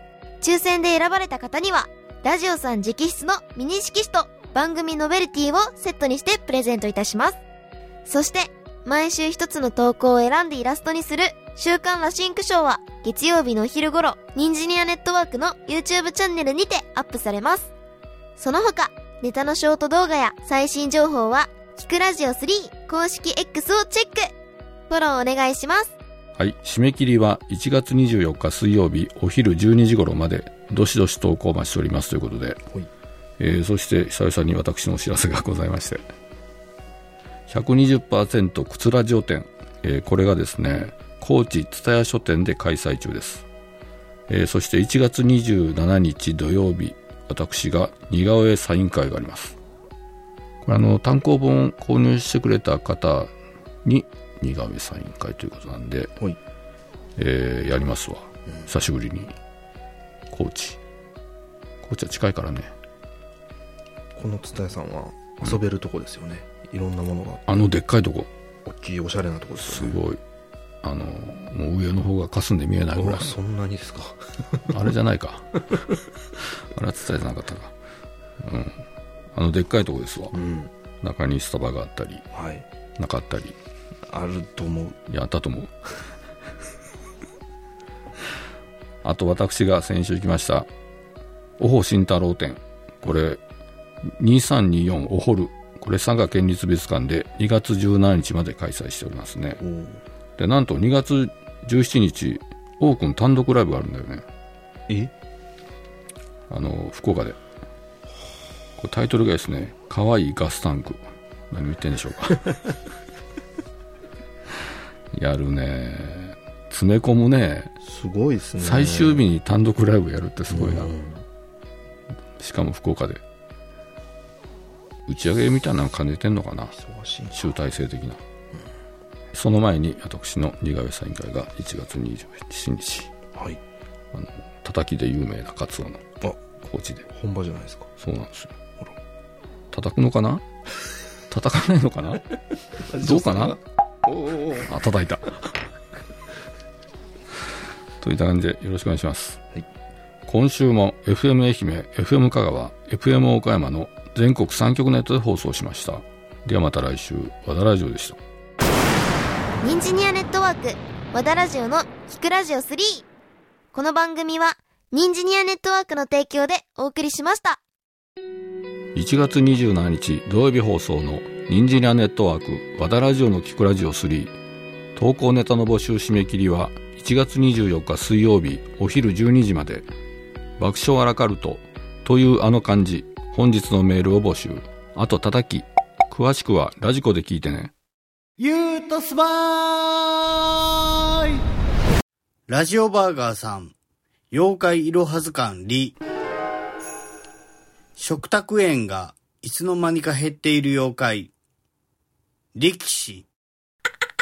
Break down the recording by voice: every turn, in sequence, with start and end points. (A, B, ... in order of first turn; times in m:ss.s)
0:00.4-0:07.4 A
0:08.1-0:17.7 A
0:18.4-0:24.3 A
0:24.9-0:26.0 A
0:26.4-0:32.6 B
0:33.4-0:36.0 B
0:37.5-0:43.5 B
0:44.3-0:49.6 B
0:50.6-0:53.3 B
0:53.8-0:56.2 B
0:57.2-0:59.4 B
1:00.3-1:00.8 B
1:01.8-1:02.7 B
1:04.2-1:07.6 C
1:07.5-1:08.3 B
1:08.6-1:10.0 C
1:09.6-1:10.2 B
1:10.8-1:13.4 B
1:13.0-1:14.7 C
1:14.7-1:15.6 B
1:16.7-1:17.7 B
1:18.4-1:20.4 B
1:20.3-1:20.7 C
1:21.0-1:22.2 B
1:22.3-1:22.6 C
1:23.0-1:23.6 B
1:24.1-1:25.0 C
1:25.1-1:25.8 B
1:29.0-1:30.7 B
1:31.6-1:33.4 B
1:34.0-1:39.6 B
1:39.6-1:40.0 C
1:40.4-1:44.3 B
1:46.5-1:47.4 B
1:48.8-1:52.7 B
1:55.1-1:57.7 B
1:57.8-1:59.2 C
1:58.6-2:01.0 B
2:00.5-2:01.2 C
2:02.4-2:03.2 B
2:05.1-2:06.8 B
2:06.7-2:07.5 C
2:07.3-2:08.2 B
2:09.3-2:13.1 B
2:13.4-2:13.6 C
2:14.1-2:17.1 B
2:17.1-2:17.9 C
2:18.0-2:18.6 B
2:19.7-2:20.5 B
2:21.3-2:22.3 B
2:22.9-2:23.6 B
2:22.9-2:24.7 C
2:24.6-2:25.7 B
2:28.0-2:29.4 B
2:30.3-2:38.2 B
2:39.6-2:43.1 A
2:43.7-2:47.6 A
2:49.0-2:54.4 B
2:55.0-2:59.9 B
3:00.6-3:07.7 B
3:08.4-3:11.4 D
3:12.5-3:13.7 D
3:14.3-3:16.0 D
3:18.0-3:21.3 D
3:22.6-3:23.3 D